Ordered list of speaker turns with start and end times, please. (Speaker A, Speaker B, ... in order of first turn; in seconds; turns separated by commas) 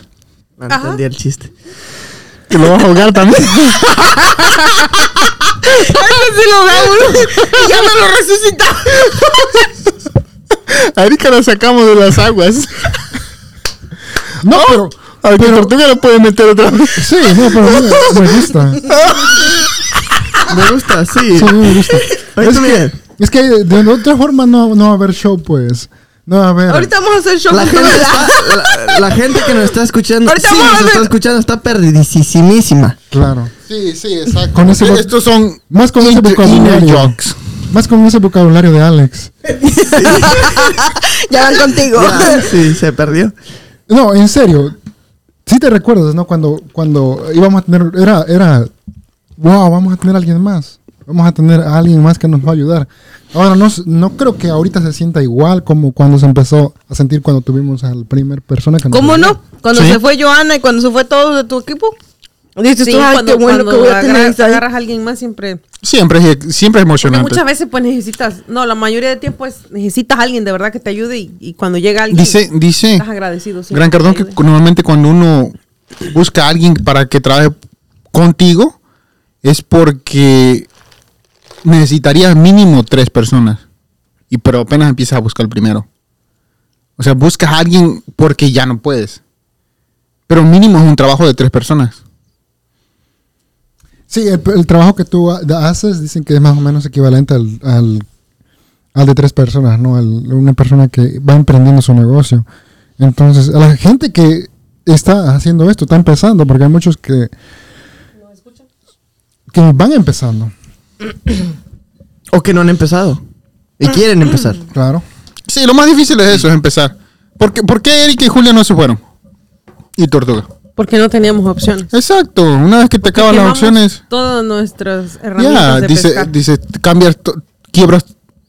Speaker A: 0.6-1.5, Speaker B: 0.7-1.0, Speaker C: 2.5-4.8, Speaker D: 5.6-9.5, Speaker C: 7.3-7.7, Speaker C: 10.7-12.9, Speaker E: 14.4-15.7, Speaker C: 14.5-18.3, Speaker E: 16.9-18.9, Speaker C: 18.9-19.4, Speaker A: 20.4-21.6, Speaker E: 21.3-26.9, Speaker A: 22.3-22.9, Speaker D: 26.7-29.5, Speaker A: 27.5-33.0, Speaker D: 30.2-31.1, Speaker E: 33.1-33.5, Speaker C: 33.6-37.4, Speaker E: 34.5-35.1, Speaker E: 35.7-37.2, Speaker E: 37.7-39.3, Speaker D: 39.6-42.5, Speaker A: 39.7-40.8, Speaker A: 41.9-43.3, Speaker E: 43.9-44.7, Speaker E: 45.5-48.7, Speaker E: 49.4-59.4, Speaker D: 58.9-62.0, Speaker C: 59.7-60.0, Speaker D: 62.5-64.6, Speaker B: 62.8-65.6, Speaker C: 65.8-67.4, Speaker B: 67.0-74.4, Speaker C: 72.1-73.0, Speaker C: 73.7-75.5, Speaker C: 76.1-77.6, Speaker C: 78.1-78.8, Speaker C: 79.4-80.7, Speaker C: 81.6-83.6, Speaker C: 84.3-85.8, Speaker C: 87.0-89.2, Speaker C: 90.3-92.0, Speaker E: 94.1-98.0, Speaker E: 98.9-102.4, Speaker E: 103.0-107.3, Speaker E: 109.5-110.5, Speaker A: 112.3-113.2, Speaker A: 113.8-114.6, Speaker E: 114.7-115.0, Speaker C: 115.5-119.0, Speaker C: 120.0-120.5, Speaker B: 120.8-121.9, Speaker C: 121.9-124.0, Speaker B: 123.0-126.3, Speaker C: 125.4-128.1